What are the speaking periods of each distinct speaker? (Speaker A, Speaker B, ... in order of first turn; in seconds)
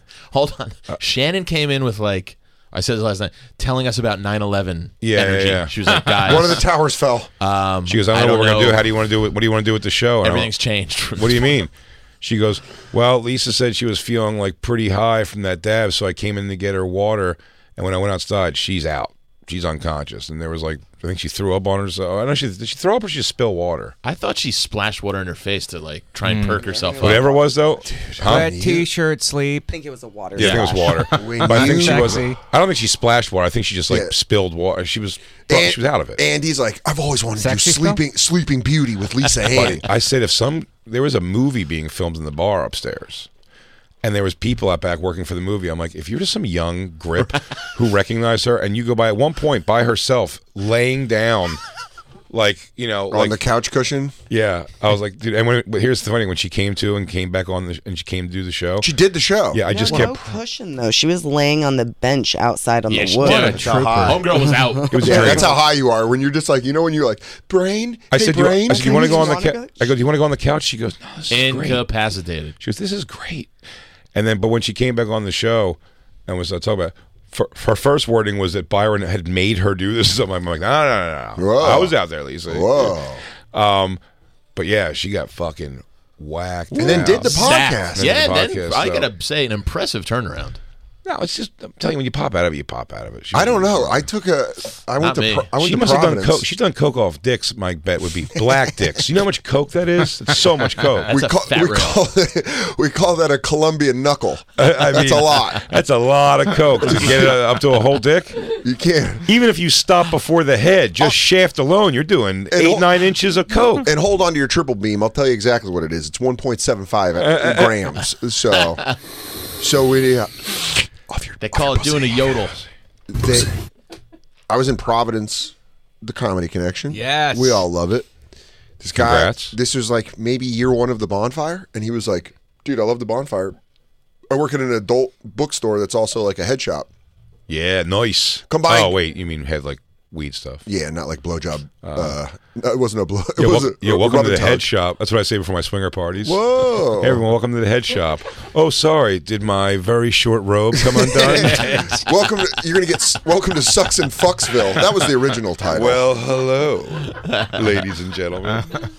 Speaker A: 0.3-6.7, 7.4-8.9, 10.2-11.6, 24.0-27.2, 30.4-30.7, 62.9-65.4, 71.3-72.5, 86.7-90.6, 95.0-95.5, 101.1-102.0, 118.7-119.0, 121.4-122.6
Speaker B: 5.0-5.7, 7.8-10.5, 11.2-23.9, 27.0-28.6, 30.4-36.2, 39.5-43.3, 44.0-51.6, 52.3-53.4, 54.3-58.9, 59.5-60.3, 64.9-65.5, 68.1-71.8, 72.6-73.5, 74.1-83.0, 83.5-84.0, 84.5-89.1, 91.0-94.0, 95.6-101.1, 104.6-108.4, 109.2-113.9, 117.2-117.8, 128.9-129.6, 137.5-140.6, 141.8-142.2, 143.4-146.4, 147.0-151.9, 155.7-158.7
Speaker C: 6.2-7.3, 27.8-28.9, 31.1-32.3, 33.9-34.1, 35.4-39.9, 53.1-54.2, 58.8-60.1, 63.2-64.2, 65.0-69.4, 81.4-81.9, 82.5-83.2, 86.7-88.2, 93.3-96.5, 101.1-105.7, 106.8-107.2, 108.5-109.3, 112.5-113.0, 113.8-118.9, 119.6-122.4, 123.1-123.5, 124.5-128.1, 128.8-133.6, 134.3-136.9, 138.5-139.0, 140.7-144.7, 146.2-147.2, 150.7-156.0
Speaker D: 26.2-26.7, 28.2-29.7, 31.0-32.4, 37.4-38.0, 126.9-127.6, 151.4-152.0
Speaker E: 26.6-27.7, 29.7-31.1, 59.7-65.4, 68.7-69.9